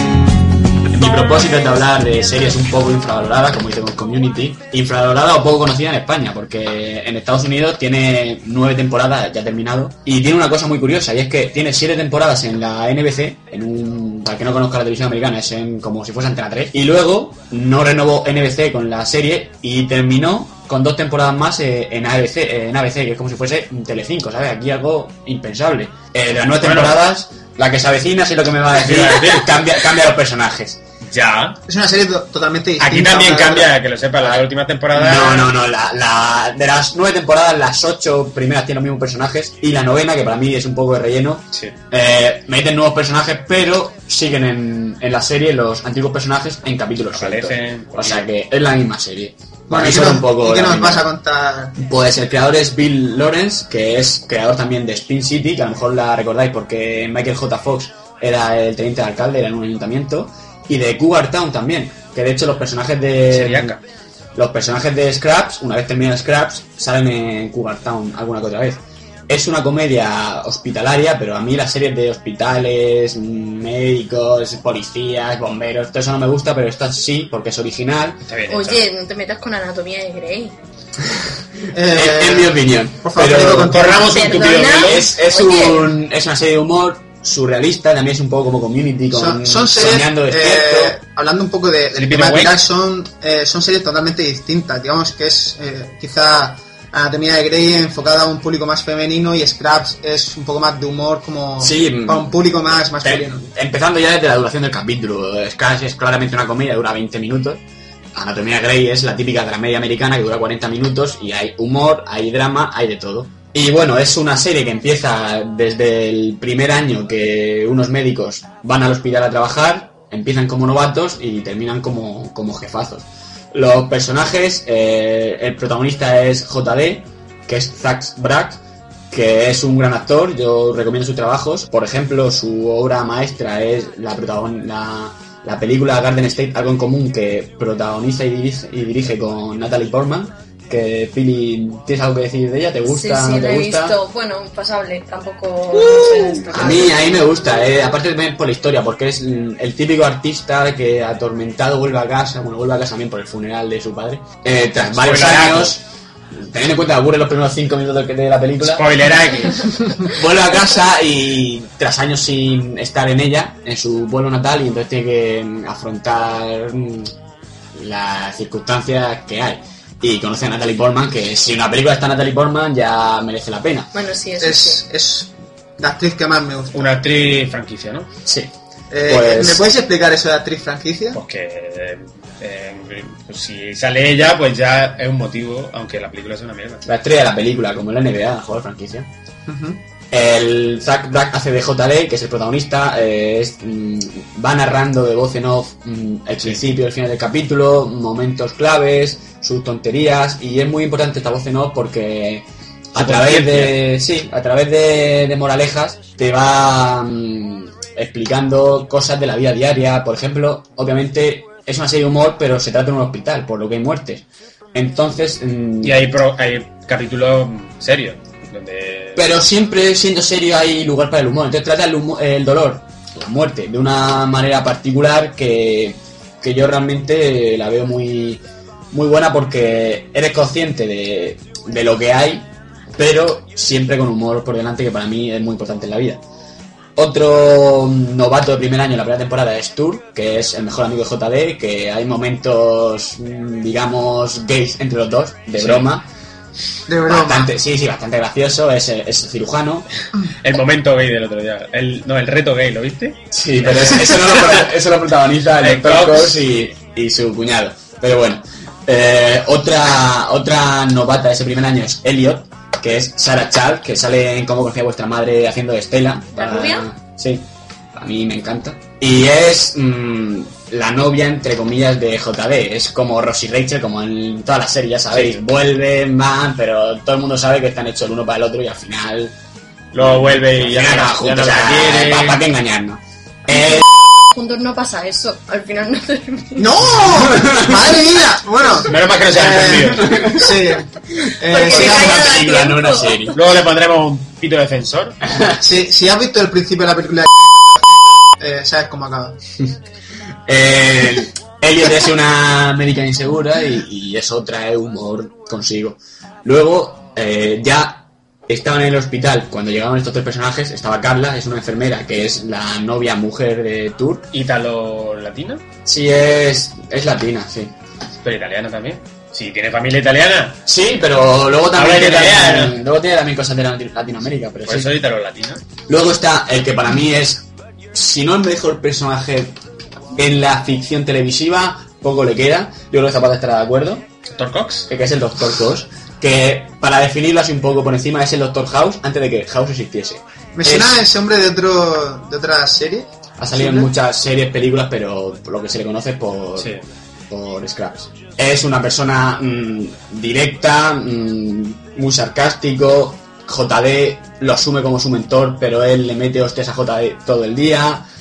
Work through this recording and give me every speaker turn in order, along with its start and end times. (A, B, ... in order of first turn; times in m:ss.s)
0:00.9-0:30.8 A
0:26.6-0:27.0 B
0:28.8-0:29.6 B
0:31.1-0:31.6 B
0:31.7-0:33.7 C
0:32.8-0:35.5 B
0:34.9-0:51.1 A
0:47.1-0:48.3 B
0:49.7-0:51.8 C
0:51.8-1:03.8 A
1:03.3-1:03.8 B
1:04.4-1:18.2 A
1:18.3-1:18.9 B
1:18.5-1:20.6 D
1:21.7-1:24.5 C
1:21.9-1:23.8 A
1:23.6-1:25.1 B
1:24.0-1:25.9 D
1:24.8-1:31.0 A
1:29.1-1:43.5 C
1:32.0-1:32.6 B
1:41.6-1:42.3 A
1:43.0-1:47.6 A
1:48.2-2:24.0 A
2:22.9-2:27.2 D
2:25.8-2:39.0 A
2:34.8-2:35.8 B
2:38.6-2:39.8 B
2:40.1-2:47.1 A
2:47.7-2:53.9 A
2:53.9-2:54.8 D
2:54.4-2:57.0 C
2:56.7-2:58.1 B
2:58.3-2:58.5 A
2:58.9-3:01.2 C
2:59.0-2:59.7 A
3:01.1-3:06.8 B
3:06.8-3:09.1 A
3:09.5-3:09.8 C
3:10.1-3:36.1 A
3:23.0-3:23.9 B
3:35.8-3:39.3 B
3:39.2-3:56.2 A
3:57.0-4:06.1 A
4:05.6-4:05.9 B
4:06.9-4:07.5 C
4:07.1-4:09.9 A
4:10.4-4:14.7 B
4:13.3-4:39.3 A
4:15.6-4:16.5 B
4:26.4-4:26.9 D
4:35.1-4:35.4 B
4:39.9-4:42.4 B
4:40.0-4:43.9 A
4:44.3-4:46.7 D
4:46.6-4:52.3 C
4:47.0-4:47.9 A
4:48.9-4:50.1 B
4:49.9-4:50.7 A
4:51.5-4:53.3 D
4:51.5-4:53.4 A
4:53.3-4:55.2 B
4:55.2-4:55.6 A
4:55.6-4:57.4 C
4:58.4-4:59.4 C
5:00.5-5:14.3 A
5:14.3-5:15.6 B
5:15.9-5:17.8 A
5:18.2-5:20.6 B
5:20.7-5:24.9 A
5:21.7-5:22.8 B
5:24.6-5:25.6 B
5:25.9-5:29.6 A
5:30.2-5:34.0 A
5:34.3-5:34.9 B
5:34.9-5:41.0 A
5:40.6-5:43.9 C
5:43.4-5:46.7 A
5:46.6-5:46.8 B
5:47.3-5:58.1 A